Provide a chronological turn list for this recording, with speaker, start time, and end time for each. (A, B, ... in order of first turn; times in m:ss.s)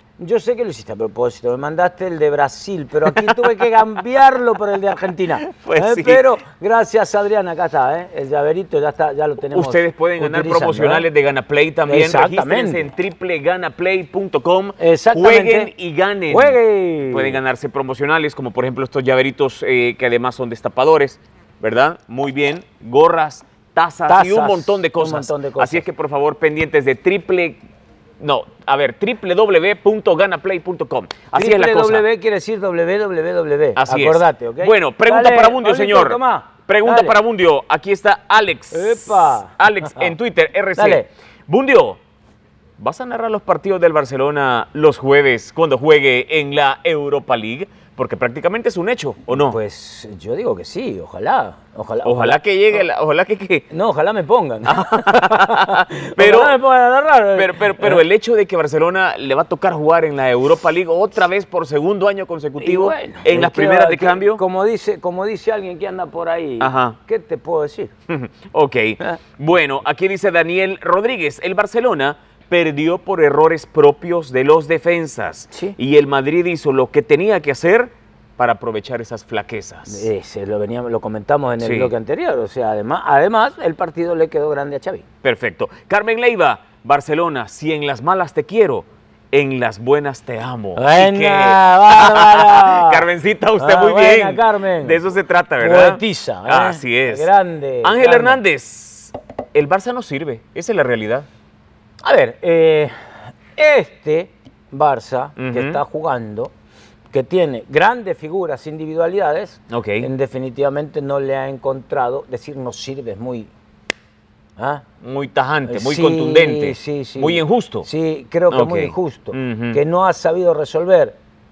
0:00.2-0:11.1 A
0:05.4-0:06.2 B
0:09.5-0:27.6 B
0:11.9-0:12.9 A
0:14.8-0:15.7 A
0:16.3-0:17.4 A
0:24.1-0:25.8 A
0:28.2-0:32.0 B
0:31.3-0:37.2 A
0:33.8-0:42.0 B
0:38.7-0:40.1 A
0:40.8-0:41.1 A
0:42.8-0:49.6 B
0:49.3-0:52.4 A
0:52.0-0:53.7 B
0:53.7-0:58.0 A
0:54.7-0:56.6 B
0:57.4-1:04.4 B
1:02.6-1:07.9 A
1:06.6-1:07.0 B
1:08.1-1:20.1 B
1:19.9-1:25.0 A
1:21.6-1:21.9 B
1:25.2-1:37.3 B
1:30.8-1:33.1 A
1:33.6-1:35.0 A
1:35.6-1:38.4 A
1:37.8-1:41.3 B
1:42.0-1:42.9 A
1:43.6-1:46.5 A
1:45.4-1:45.8 B
1:47.1-1:53.5 A
1:49.7-1:50.1 B
1:54.6-1:54.8 A
1:55.0-1:57.9 B
1:55.7-2:01.2 A
1:58.5-1:59.8 B